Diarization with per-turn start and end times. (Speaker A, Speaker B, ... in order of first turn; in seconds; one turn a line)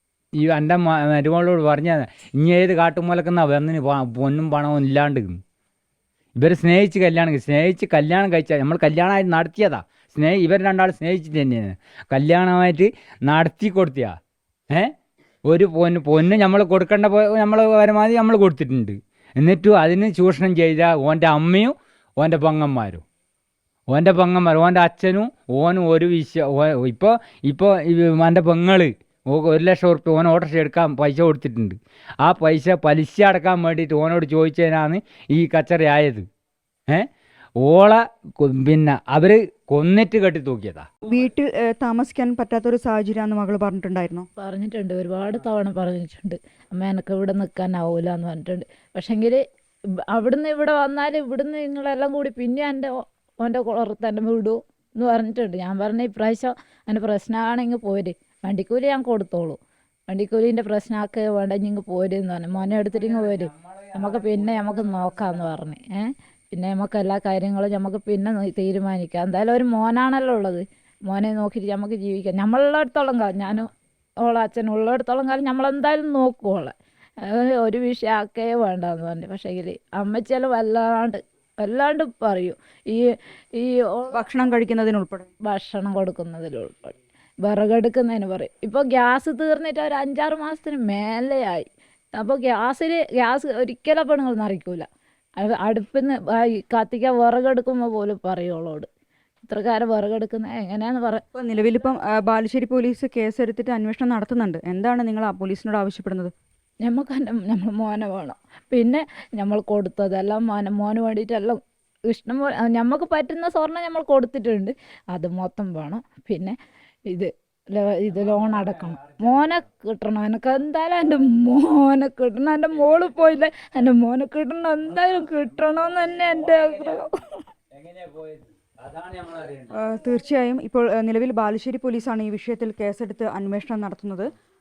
Speaker A: 0.4-5.4
Speaker A: 6.4-14.1
Speaker A: 15.5-23.0
Speaker A: 23.9-36.2
Speaker A: 37.6-40.9
Speaker B: 41.1-44.2
Speaker C: 44.4-49.4
Speaker C: 50.1-59.6
Speaker C: 60.1-73.7
Speaker A: 62.5-65.7
Speaker C: 74.2-83.0
Speaker C: 83.6-84.2
Speaker B: 84.1-85.3
Speaker C: 85.5-94.8
Speaker C: 95.4-98.9
Speaker C: 99.5-101.2
Speaker B: 101.3-106.3
Speaker C: 106.8-116.6
Speaker C: 117.1-127.4
Speaker A: 118.1-119.6
Speaker A: 124.9-127.0
Speaker A: 127.7-129.7
Speaker B: 129.7-134.3